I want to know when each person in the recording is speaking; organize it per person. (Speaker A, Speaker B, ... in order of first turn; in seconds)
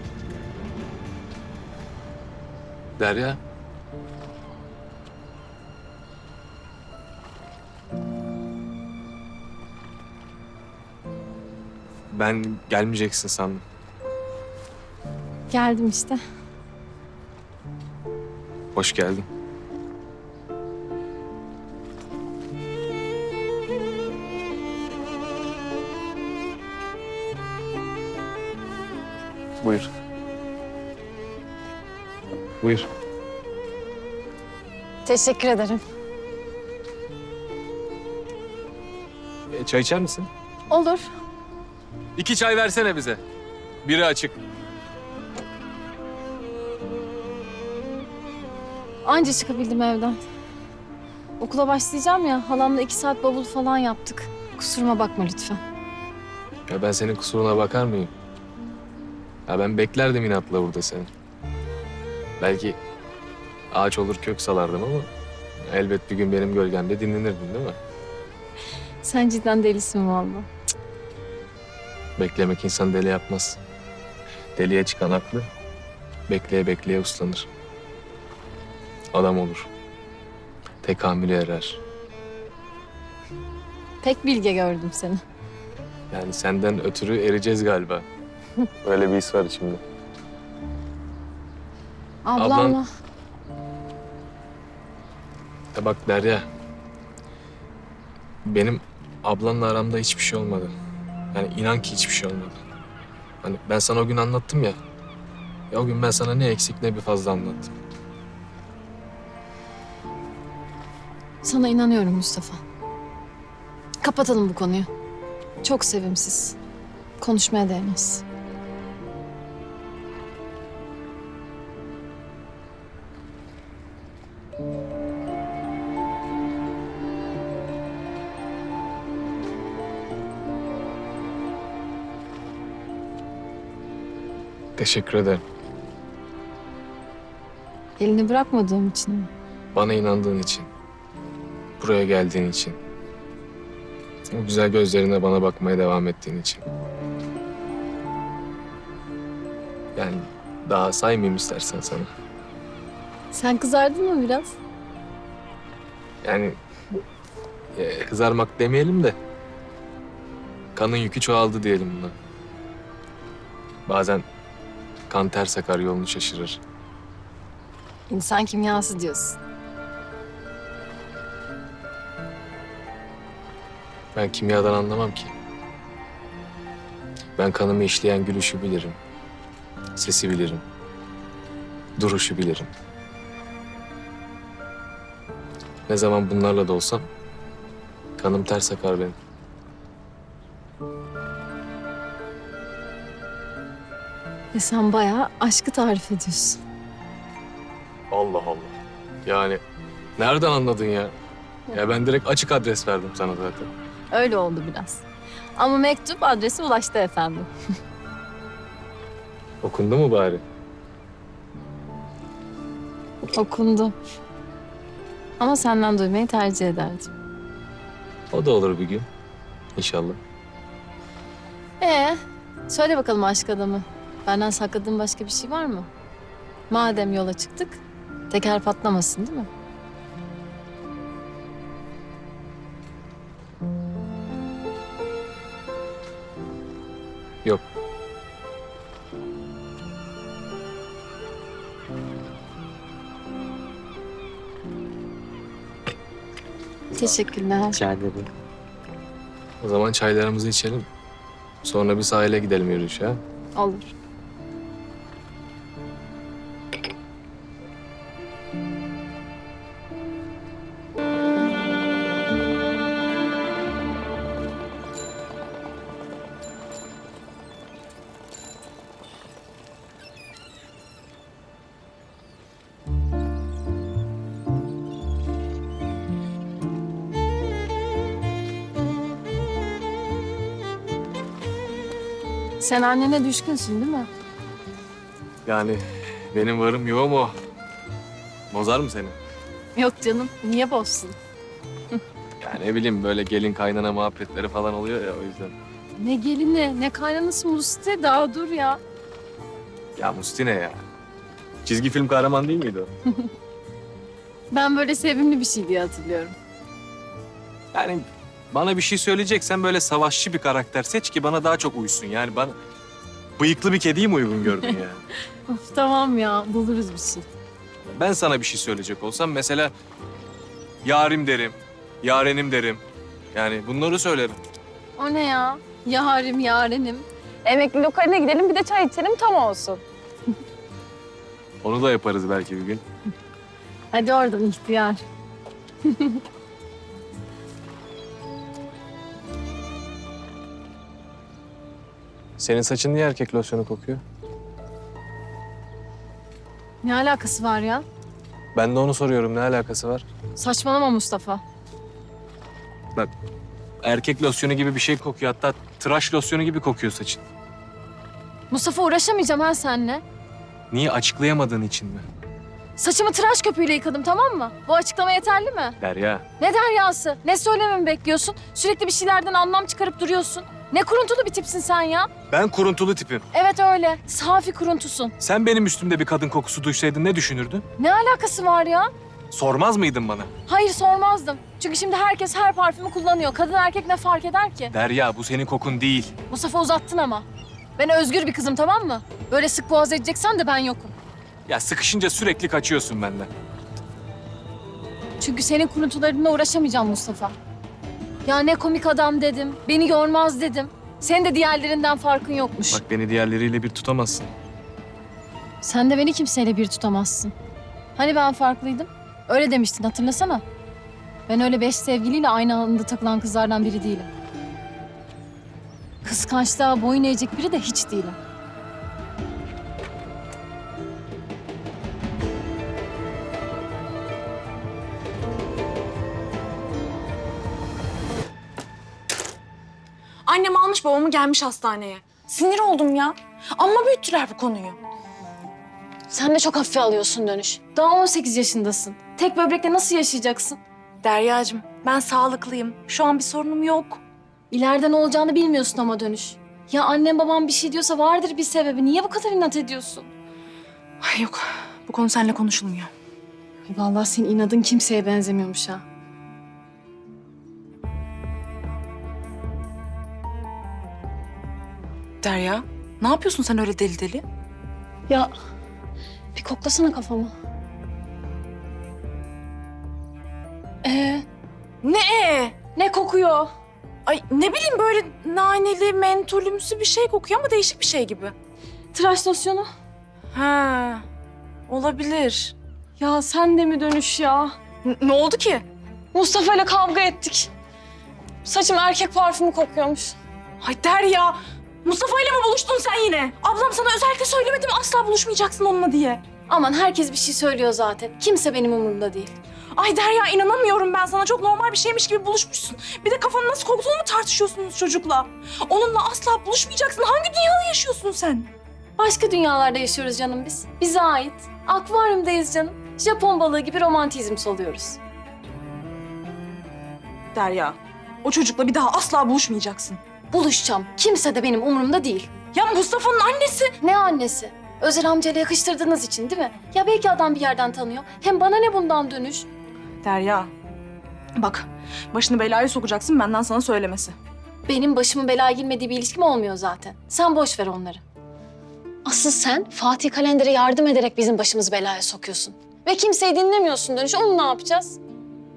Speaker A: 3.0-3.4, 12.1-13.6, 18.7-19.2, 29.6-29.9, 32.6-32.9, 39.5-40.3, 42.1-43.2, 43.8-44.4, 56.7-58.1, 59.5-61.1, 62.4-62.8, 63.7-65.1, 65.7-67.8, 72.2-73.6, 74.5-75.5, 76.3-77.5, 79.1-79.7, 80.8-81.8, 86.1-88.0, 88.8-89.8, 92.4-92.8, 95.7-96.5, 98.5-100.7, 101.3-102.6, 103.4-104.8, 105.7-107.7, 134.8-135.4, 139.7-140.7, 141.8-142.8, 144.3-146.6, 149.9-152.1, 156.2-156.6, 157.7-159.2, 160.7-162.2, 163.9-164.2, 165.1-166.6, 174.1-175.3, 177.4-179.0, 179.9-180.6, 182.0-182.7, 185.9-187.1, 188.2-189.2, 198.1-199.6, 200.2-201.1, 201.7-203.7, 209.6-210.4, 218.3-219.1, 219.8-220.2, 249.6-250.9, 251.6-253.2, 285.4-287.4, 288.5-289.2, 292.4-295.5, 299.9-300.8, 301.6-302.9, 307.7-312.6, 313.4-315.0, 317.9-319.7, 320.8-322.8, 323.3-324.4, 331.6-332.8, 342.4-344.0, 348.5-350.1, 353.8-357.2, 360.7-362.1, 365.8-366.2, 372.3-373.2, 375.2-377.6, 379.3-380.3, 384.7-386.1, 391.5-393.3, 402.7-404.3
Speaker B: 15.5-16.2, 35.0-35.8, 40.7-41.1, 49.0-50.2, 51.4-55.6, 69.0-70.5, 84.0-85.2, 92.2-92.9, 111.4-112.6, 114.0-114.9, 115.6-116.6, 117.2-118.2, 138.0-139.3, 153.3-154.5, 168.1-169.4, 194.5-196.6, 204.1-205.0, 205.6-207.5, 213.3-213.9, 215.4-217.1, 221.8-225.9, 226.7-229.5, 246.9-247.9, 253.6-253.9, 282.6-284.1, 289.8-291.1, 296.0-298.8, 304.5-306.4, 314.5-314.8, 315.5-317.2, 325.0-329.8, 333.9-335.0, 335.9-336.2, 346.8-347.8, 350.4-351.4, 358.5-360.0, 362.8-365.8, 366.4-372.1, 373.3-375.1, 377.8-378.9, 380.5-384.7, 386.3-387.2, 387.8-390.9, 395.2-397.4, 398.2-402.8, 405.6-407.3, 407.9-410.4, 411.3-414.1, 416.0-418.2, 436.1-440.6, 444.5-450.1, 453.7-455.8, 466.3-467.3, 470.8-471.2, 472.7-473.5, 478.9-479.7, 483.0-484.6, 486.1-487.5, 488.4-490.2, 496.5-499.3, 509.0-515.0, 520.3-522.3, 523.8-529.5, 534.6-538.0, 539.0-545.0
Speaker C: 430.2-434.8, 441.0-444.0, 451.0-452.9, 462.2-464.2, 471.8-472.6, 474.1-478.3, 480.3-481.0, 481.7-482.5, 484.8-485.7, 490.6-496.2, 499.8-508.5, 517.3-520.0, 522.5-523.7, 530.0-530.5, 531.4-534.1